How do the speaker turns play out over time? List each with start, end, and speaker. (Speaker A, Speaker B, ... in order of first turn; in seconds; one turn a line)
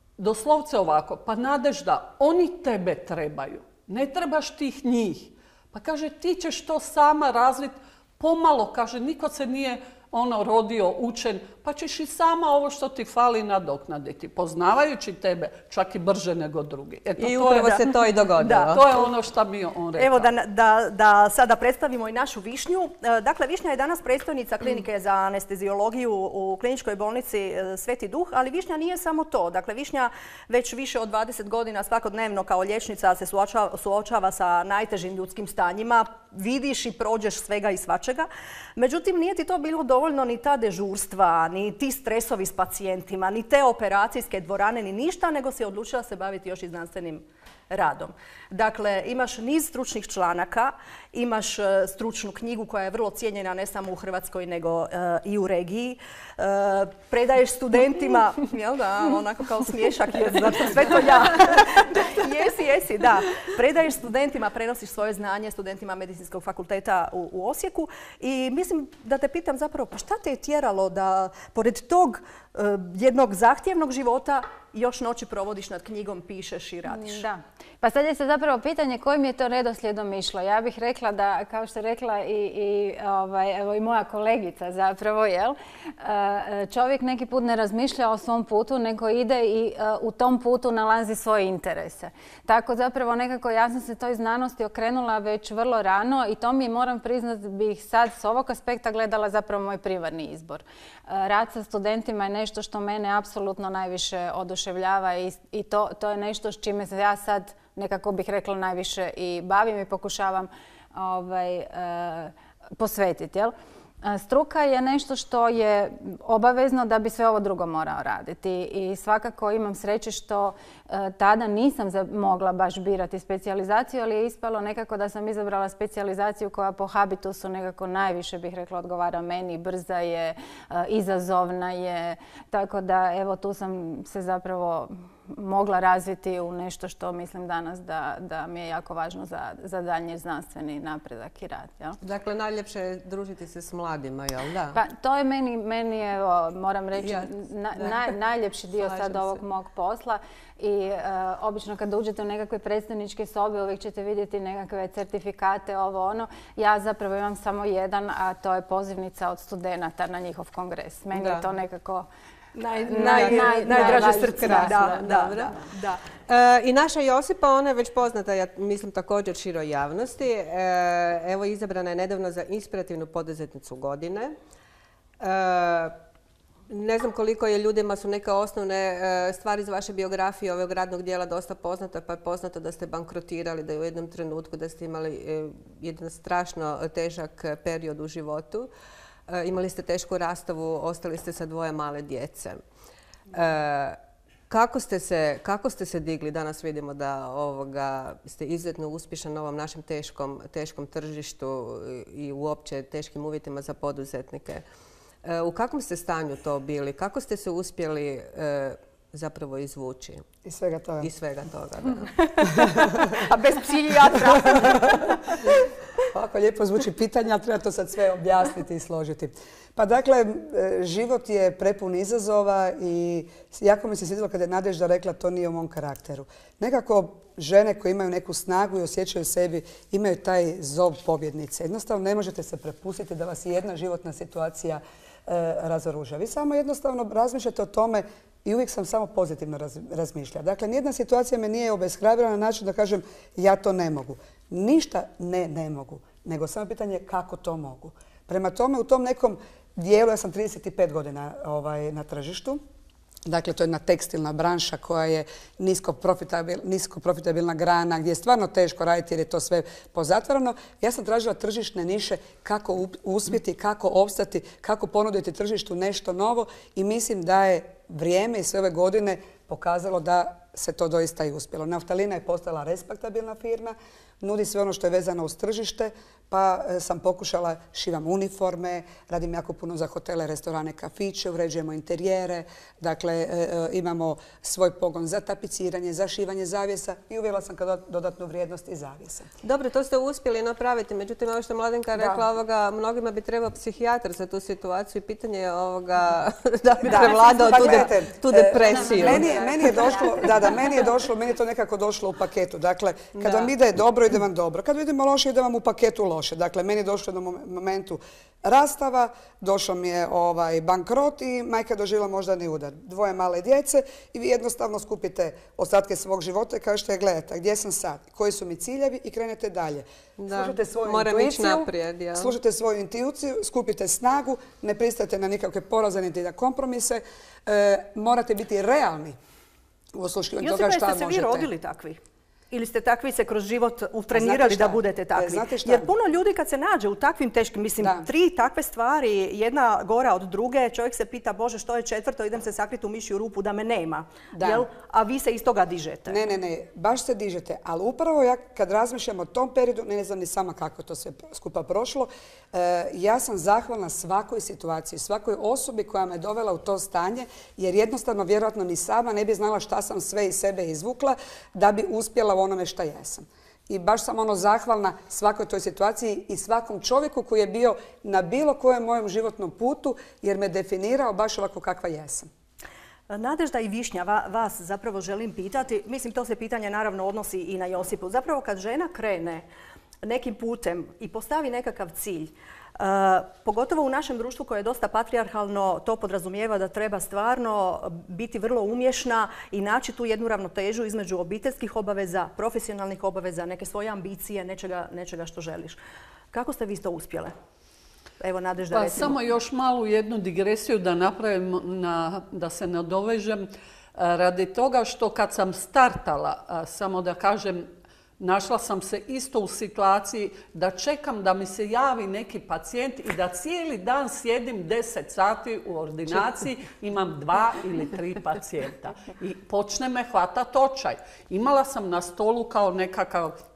Speaker A: 0.2-17.8
Speaker B: 17.2-18.8
Speaker C: 18.4-18.8
Speaker A: 18.5-20.3
Speaker C: 20.0-77.2
Speaker D: 76.9-142.0
Speaker B: 142.0-144.8
Speaker D: 144.8-162.1
Speaker B: 147.0-148.1
Speaker B: 148.8-149.4
Speaker B: 161.1-161.5
Speaker C: 162.6-166.0
Speaker D: 162.8-165.1
Speaker B: 163.0-165.7
Speaker B: 166.3-174.3
Speaker B: 175.2-176.0
Speaker B: 176.7-188.7
Speaker B: 189.3-192.6
Speaker B: 193.3-194.0
Speaker B: 194.5-204.6
Speaker B: 205.2-210.2
Speaker E: 210.4-211.1
Speaker B: 211.0-212.3
Speaker C: 212.4-215.3
Speaker E: 212.5-213.2
Speaker E: 214.3-215.1
Speaker E: 216.1-252.6
Speaker E: 253.3-289.3
Speaker B: 289.4-299.3
Speaker E: 292.0-292.2
Speaker E: 296.9-329.1
Speaker C: 296.9-297.7
Speaker D: 298.6-300.8
Speaker B: 303.2-303.5
Speaker B: 320.2-322.3
Speaker E: 330.0-331.5
Speaker C: 330.4-332.0
Speaker C: 332.5-346.2
Speaker E: 334.1-335.9
Speaker E: 337.8-338.1
Speaker E: 344.4-344.6
Speaker E: 346.1-372.3
Speaker C: 373.1-379.5
Speaker C: 380.0-395.8
Speaker C: 396.3-397.3
Speaker C: 398.2-399.2
Speaker A: 398.7-407.7
Speaker A: 408.2-423.4